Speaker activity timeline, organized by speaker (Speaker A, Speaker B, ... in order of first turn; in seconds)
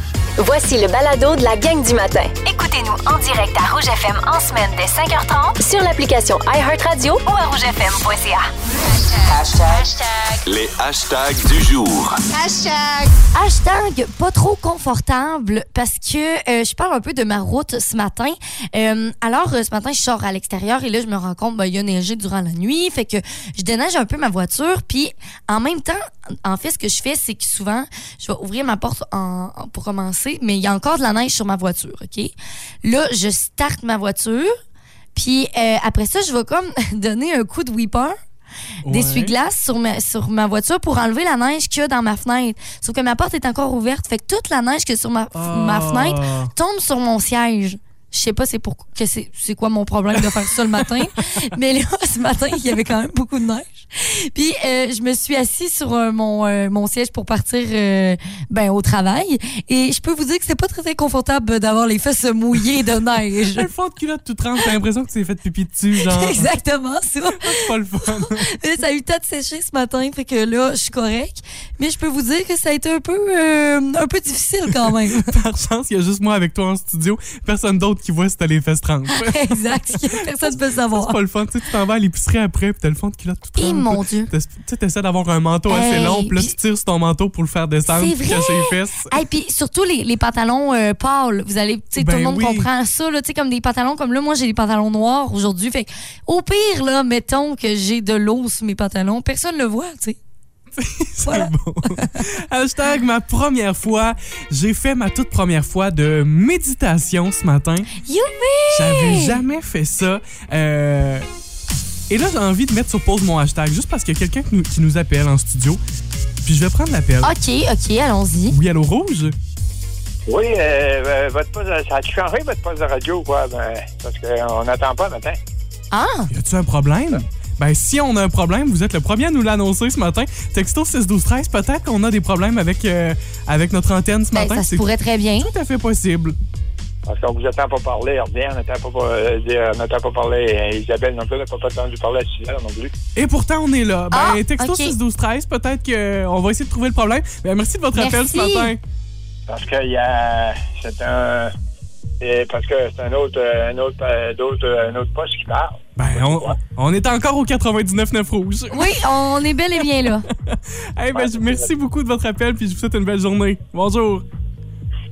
Speaker A: 0.4-9.3, 9.8-10.3, 12.3-13.1
Speaker B: 9.3-9.8, 10.4-12.2
Speaker C: 13.3-32.3, 32.8-34.5, 35.1-38.2, 38.9-63.7, 66.0-75.3, 79.1-81.2, 83.6-84.3, 85.7-86.5, 87.9-100.2, 101.2-102.2, 108.0-109.4, 117.2-118.5, 125.9-126.3, 134.3-135.5, 144.1-144.9, 147.9-148.7, 158.7-160.3
Speaker D: 38.9-39.3, 45.3-46.5, 50.2-50.9, 63.5-66.5, 67.3-68.5, 74.7-89.1, 91.9-92.7, 100.8-107.9, 108.7-111.3, 112.1-115.8, 116.4-117.3, 118.5-119.3, 126.3-136.4, 143.1-148.8, 156.0-159.0, 159.8-164.2
Speaker E: 120.3-125.4, 137.1-142.9, 149.5-151.5, 152.2-156.5, 161.1-161.7